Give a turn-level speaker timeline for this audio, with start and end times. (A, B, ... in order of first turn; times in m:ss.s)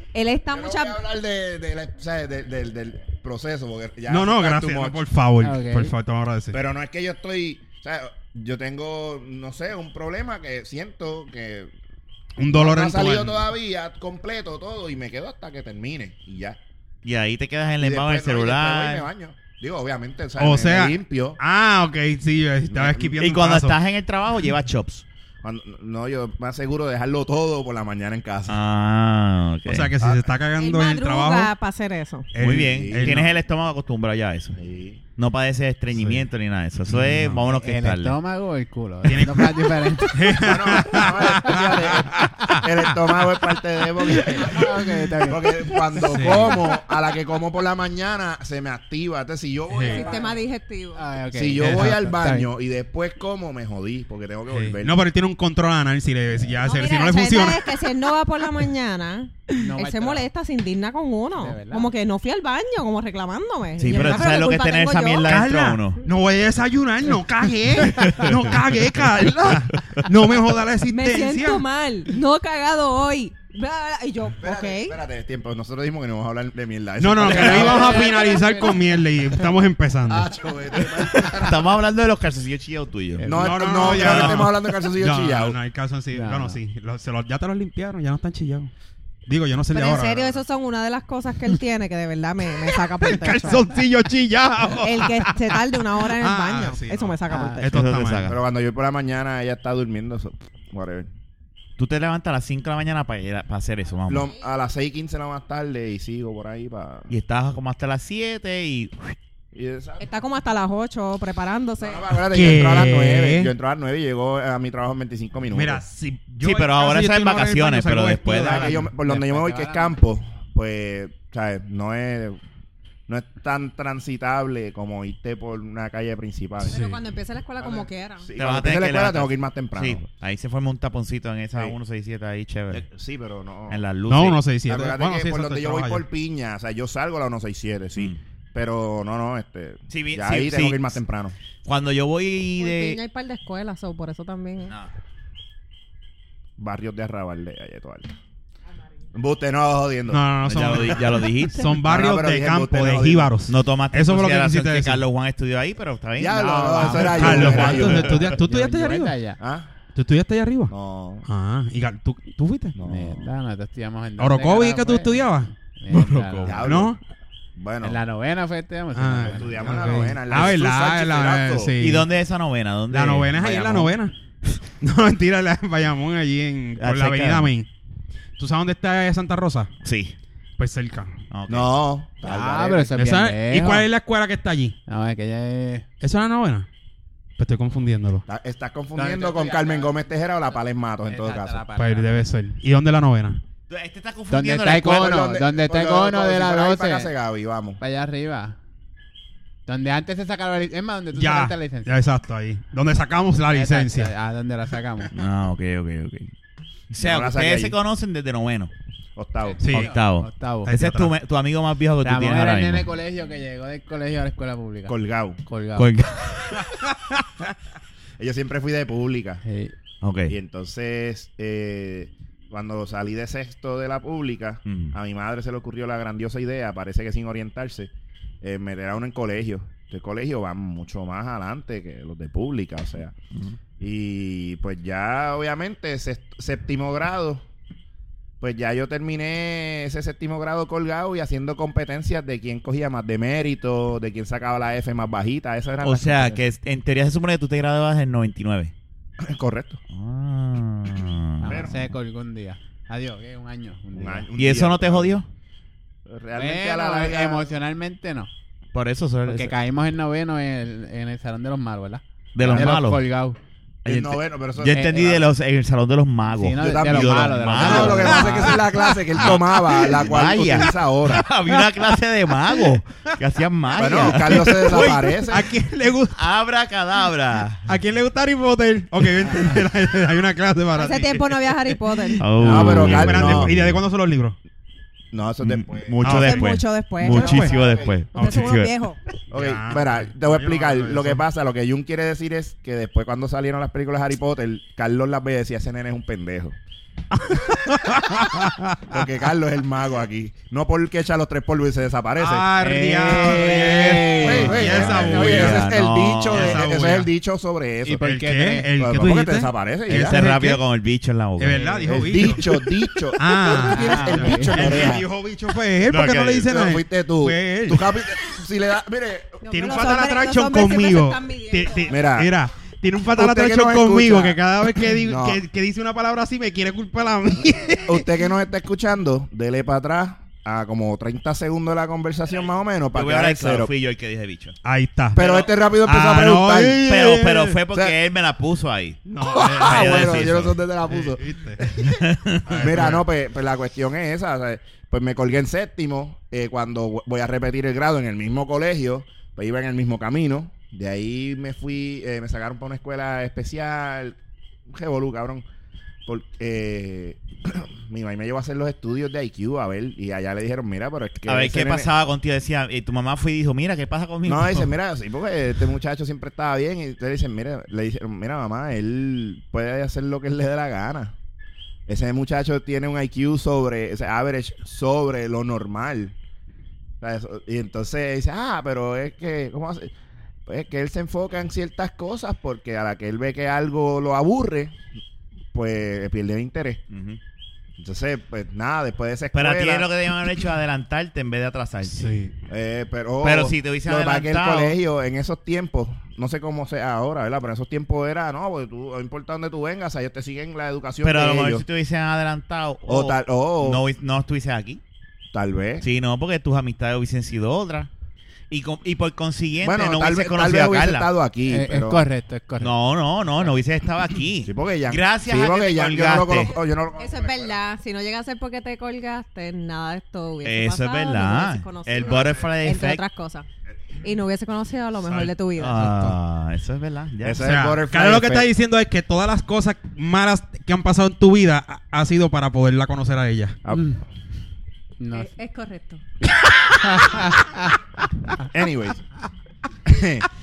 0:00.1-0:01.0 A
0:00.5-0:05.0 B
0:04.1-0:06.6 C
0:05.4-0:05.9 D
0:06.5-0:11.7 B
0:12.4-0:13.4 C
0:12.5-0:16.6 B
0:17.0-0:19.1 E
0:17.8-0:21.4 B
0:20.4-0:23.8 C
0:22.7-0:23.2 B
0:23.2-0:25.0 E
0:25.4-0:28.6 B
0:28.5-0:29.9 E
0:29.7-0:31.5 C
0:30.0-0:30.3 B
0:30.6-0:32.3 A
0:32.3-0:33.3 C
0:32.4-0:34.6 E
0:32.5-0:33.2 B
0:34.6-0:35.0 B
0:35.2-0:38.2 E
0:36.9-0:37.4 C
0:37.5-0:40.6 D
0:39.0-0:42.7 C
0:40.4-0:50.4 B
0:44.2-0:45.6 D
0:46.1-0:46.6 C
0:49.7-0:50.1 C
0:49.8-0:51.0 A
0:51.0-0:52.5 D
0:51.3-0:55.0 B
0:51.6-0:51.9 C
0:54.5-0:57.7 C
0:56.6-1:05.4 A
0:59.6-1:00.3 D
1:01.4-1:01.9 D
1:03.8-1:06.0 E
1:03.9-1:04.3 C
1:05.2-1:11.6 C
1:08.0-1:08.4 E
1:09.7-1:10.1 E
1:10.9-1:15.0 A
1:14.4-1:18.1 B
1:17.0-1:20.3 C
1:17.3-1:17.7 E
1:17.3-1:19.4 D
1:20.1-1:21.7 B
1:21.0-1:23.3 E
1:23.2-1:23.9 D
1:23.2-1:25.6 B
1:23.3-1:28.7 C
1:23.8-1:24.4 E
1:26.1-1:26.6 D
1:29.3-1:30.4 C
1:29.7-1:33.7 A
1:32.7-1:38.3 C
1:34.8-1:37.8 A
1:37.3-1:37.6 D
1:37.6-1:38.4 E
1:38.3-1:41.1 B
1:41.8-1:44.3 E
1:44.1-1:47.1 B
1:47.1-1:49.2 E
1:49.5-1:50.1 B
1:50.0-1:52.2 A
1:51.8-1:55.8 B
1:52.3-1:53.5 C
1:55.5-1:58.8 C
1:56.4-1:58.8 E
1:58.4-2:02.4 B
1:58.4-1:59.9 D
2:03.1-2:06.8 B
2:06.6-2:08.3 A
2:06.7-2:07.0 C
2:07.6-2:10.0 B
2:08.4-2:12.8 E
2:12.7-2:13.8 B
2:13.7-2:14.4 E
2:14.1-2:16.0 C
2:14.7-2:21.4 B
2:19.9-2:21.0 E
2:21.6-2:23.0 E
2:22.6-2:24.8 A
2:26.6-2:28.1 B
2:29.1-2:30.3 B
2:30.1-2:35.0 C
2:30.4-2:31.7 E
2:31.8-2:33.3 B
2:33.5-2:38.1 E
2:36.2-2:38.2 B
2:36.3-2:39.4 D
2:37.1-2:39.2 C
2:39.4-2:39.7 B
2:40.0-2:40.7 C
2:40.7-2:41.3 B
2:41.3-2:42.8 C
2:42.8-2:43.3 B
2:42.8-2:46.7 D
2:44.2-2:47.0 C
2:46.4-2:47.0 B
2:47.6-2:48.0 B
2:47.8-2:50.2 D
2:48.9-2:52.1 C
2:49.2-2:51.8 B
2:51.8-2:53.9 E
2:52.9-2:54.1 C
2:54.8-2:57.7 C
2:56.8-2:57.5 E
2:58.4-2:59.7 C
2:59.8-3:00.2 E
3:00.6-3:01.1 C
3:01.3-3:01.7 E
3:01.5-3:03.0 B
3:02.2-3:03.9 D
3:02.9-3:04.8 C
3:04.9-3:05.9 D
3:06.0-3:06.7 C
3:07.4-3:08.2 C
3:08.3-3:11.6 B
3:09.0-3:10.0 D
3:11.1-3:12.2 D
3:11.8-3:13.4 C
3:13.7-3:15.2 E
3:14.3-3:17.1 D
3:14.8-3:17.8 B
3:17.8-3:18.6 D
3:19.7-3:22.0 D
3:21.1-3:24.1 C
3:23.5-3:25.1 D
3:25.1-3:26.3 E
3:26.9-3:28.7 E
3:27.0-3:27.8 B
3:29.2-3:29.9 B
3:29.5-3:30.7 D
3:29.6-3:29.9 C
3:29.7-3:32.9 E
3:30.6-3:31.1 C
3:32.0-3:35.9 D
3:34.9-3:35.4 B
3:35.8-3:36.7 E
3:38.2-3:39.4 B
3:39.4-3:39.7 D
3:40.0-3:40.3 E
3:40.3-3:47.9 B
3:44.7-3:44.9 E
3:48.4-3:53.1 B
3:53.8-3:57.4 B
3:58.4-4:06.4 B
4:05.8-4:08.7 E
4:09.2-4:09.8 B
4:09.9-4:11.7 E
4:11.4-4:14.3 D
4:11.4-4:11.8 B
4:13.9-4:15.2 B
4:14.4-4:15.3 E
4:16.1-4:17.5 B
4:16.4-4:18.3 D
4:18.7-4:19.5 E
4:19.3-4:23.4 D
4:22.4-4:23.0 E
4:22.4-4:22.7 B
4:23.8-4:25.3 B
4:23.8-4:28.6 E
4:26.3-4:28.5 D
4:26.6-4:31.3 B
4:28.0-4:29.9 C
4:29.2-4:35.0 E
4:33.8-4:35.5 B
4:34.0-4:36.2 C
4:36.2-4:37.7 E
4:37.7-4:44.4 C
4:40.8-4:42.3 A
4:42.2-4:43.8 E
4:42.4-4:43.6 B
4:45.1-4:46.2 B
4:45.4-4:48.7 E
4:46.0-4:46.5 C
4:46.1-4:49.0 A
4:47.0-4:47.6 C
4:47.3-4:47.9 B
4:48.2-4:48.6 C
4:49.3-4:56.6 B
4:49.3-4:51.2 C
4:57.2-4:58.9 C
4:58.9-5:02.5 B
5:02.2-5:05.7 C
5:02.6-5:04.8 D
5:03.1-5:08.1 B
5:04.2-5:06.7 E
5:06.3-5:07.1 C
5:07.8-5:08.7 D
5:08.0-5:10.6 C
5:08.8-5:10.2 B
5:09.9-5:11.7 E
5:11.4-5:17.9 C
5:11.5-5:12.3 D
5:11.8-5:15.1 B
5:13.6-5:14.9 D
5:13.7-5:14.8 E
5:15.9-5:16.5 E
5:16.4-5:19.4 B
5:19.4-5:22.0 A
5:19.5-5:28.1 C
5:21.9-5:22.3 B
5:23.1-5:25.4 B
5:27.8-5:33.7 B
5:32.9-5:34.6 E
5:34.6-5:35.3 C
5:35.2-5:37.0 B
5:35.2-5:35.5 E
5:35.8-5:37.6 C
5:36.8-5:39.0 E
5:39.1-5:40.2 C
5:39.2-5:41.9 B
5:39.6-5:40.6 E
5:40.9-5:41.8 C
5:41.8-5:43.0 E
5:42.5-5:43.0 C
5:42.5-5:54.2 B
5:54.7-5:55.4 B
5:56.1-6:01.9 B
6:01.3-6:04.7 E
6:04.3-6:11.1 B
6:11.9-6:16.2 B
6:17.0-6:19.9 B
6:20.5-6:24.8 B
6:25.5-6:26.8 B
6:26.9-6:27.2 E
6:27.8-6:29.9 B
6:29.3-6:32.1 E
6:31.9-6:32.3 C
6:32.5-6:41.6 B
6:33.2-6:34.8 E
6:41.0-6:44.8 E
6:42.9-6:43.8 B
6:45.3-6:45.8 B
6:45.8-6:47.9 E
6:48.5-6:51.1 E
6:49.6-6:52.0 B
6:51.5-6:52.8 D
6:52.6-6:56.5 E
6:54.4-6:57.6 B
6:57.0-7:03.5 A
7:00.4-7:03.0 E
7:04.0-7:05.9 A
7:05.1-7:06.2 C
7:05.6-7:07.4 E
7:07.2-7:08.5 B
7:07.4-7:13.6 C
7:13.6-7:14.0 B
7:13.7-7:14.0 D
7:15.0-7:15.3 D
7:15.1-7:16.0 A
7:16.8-7:17.7 D
7:18.5-7:19.0 B
7:19.8-7:20.3 B